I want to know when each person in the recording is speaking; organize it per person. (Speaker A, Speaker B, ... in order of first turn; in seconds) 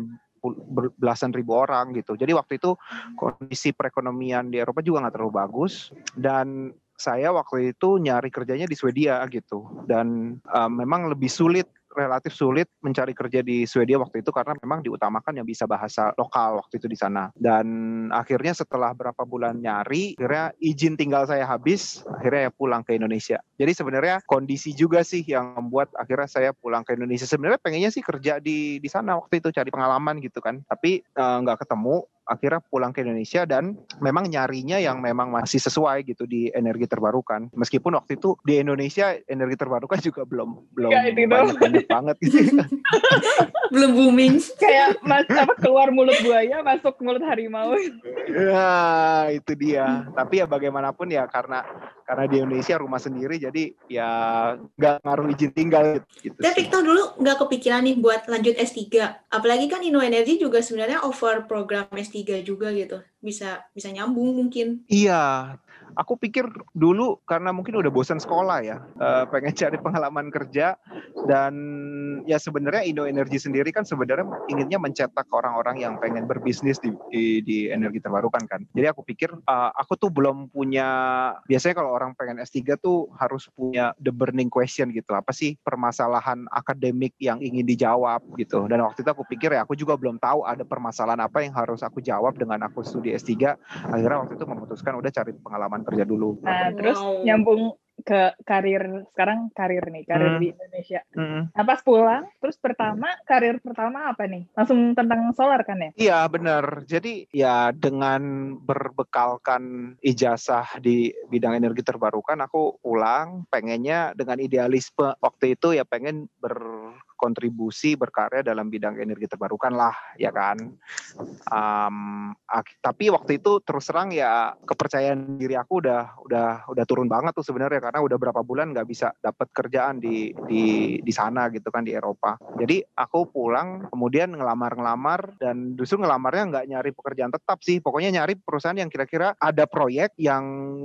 Speaker A: 0.4-42.7, 48.2-56.7, 64.9-70.7, 71.3-96.3, 100.1-100.5, 101.2-101.5, 106.0-116.6, 117.2-120.6, 121.5-140.5
Speaker B: 40.9-41.9, 42.9-43.5, 44.6-48.0, 96.4-101.0, 101.6-105.9
Speaker C: 42.3-44.8, 56.4-64.8, 96.6-97.4